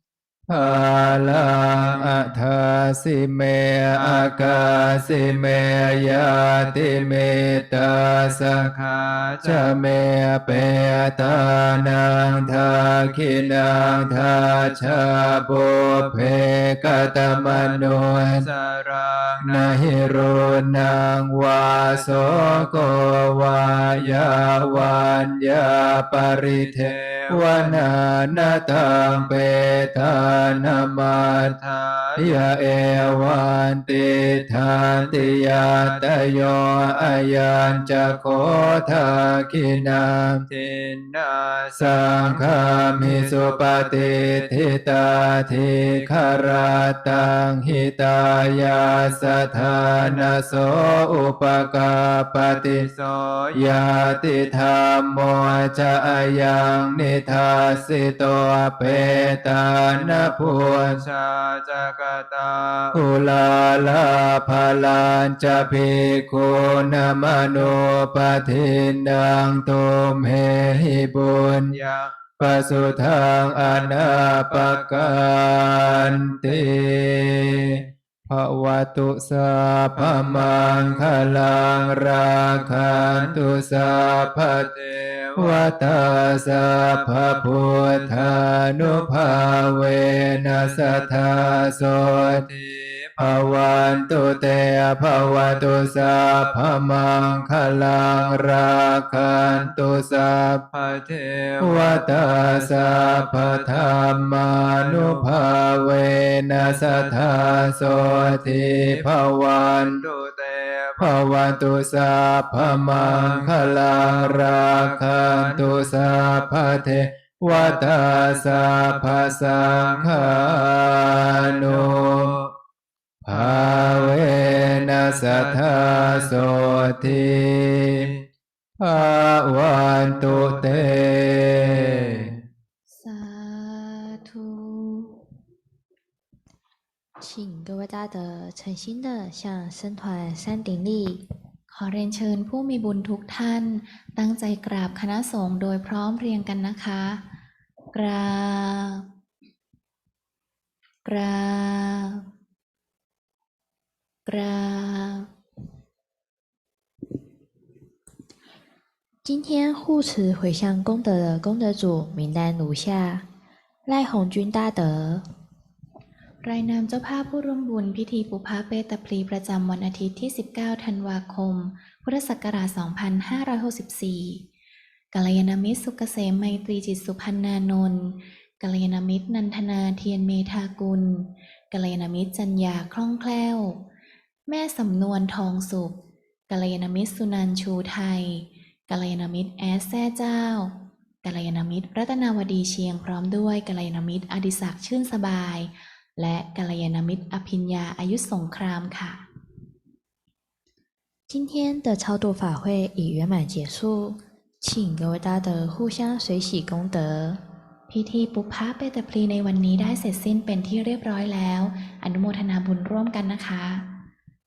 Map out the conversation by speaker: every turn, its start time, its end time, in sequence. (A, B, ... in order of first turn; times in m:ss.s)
0:00.5-0:08.7 A
0:00.6-0:02.4 B
0:04.0-0:09.8 B
0:09.4-0:18.5 A
0:12.8-0:20.6 B
0:19.4-0:31.5 A
0:21.8-0:23.0 B
0:24.1-0:24.9 B
0:26.5-0:29.3 B
0:29.9-0:32.5 B
0:32.2-0:40.4 A
0:34.0-0:39.5 B
0:40.5-0:44.7 B
0:41.8-0:52.8 A
0:45.8-0:46.7 B
0:48.8-0:50.9 B
0:52.5-0:54.6 B
0:53.5-1:01.0 A
0:59.9-1:03.0 B
1:02.9-1:11.7 A
1:11.7-1:12.1 B
1:12.4-1:24.7 A
1:13.6-1:17.8 B
1:20.0-1:26.0 B
1:25.4-1:32.4 A
1:26.6-1:29.5 B
1:30.4-1:34.4 B
1:33.2-1:40.6 A
1:35.2-1:36.8 B
1:39.4-1:39.7 B
1:40.7-1:45.4 B
1:41.6-1:50.0 A
1:46.6-1:51.1 B
1:51.0-2:02.4 A
1:52.9-1:56.9 B
1:57.5-2:02.5 B
2:03.2-2:08.1 A
2:03.3-2:08.2 B
2:08.8-2:12.4 A
2:09.9-2:12.4 B
2:12.9-2:15.2 C
2:17.2-2:21.2 D
2:21.7-2:27.2 C
2:27.9-2:29.1 C
2:31.0-2:32.2 C
2:34.2-2:35.3 C
2:39.2-2:43.2 D
2:43.9-2:45.2 D
2:46.4-2:54.4 C
2:55.1-3:03.8 C
3:04.5-3:06.0 C
3:06.5-3:19.2 C
3:21.3-3:27.4 D
3:27.9-3:33.9 C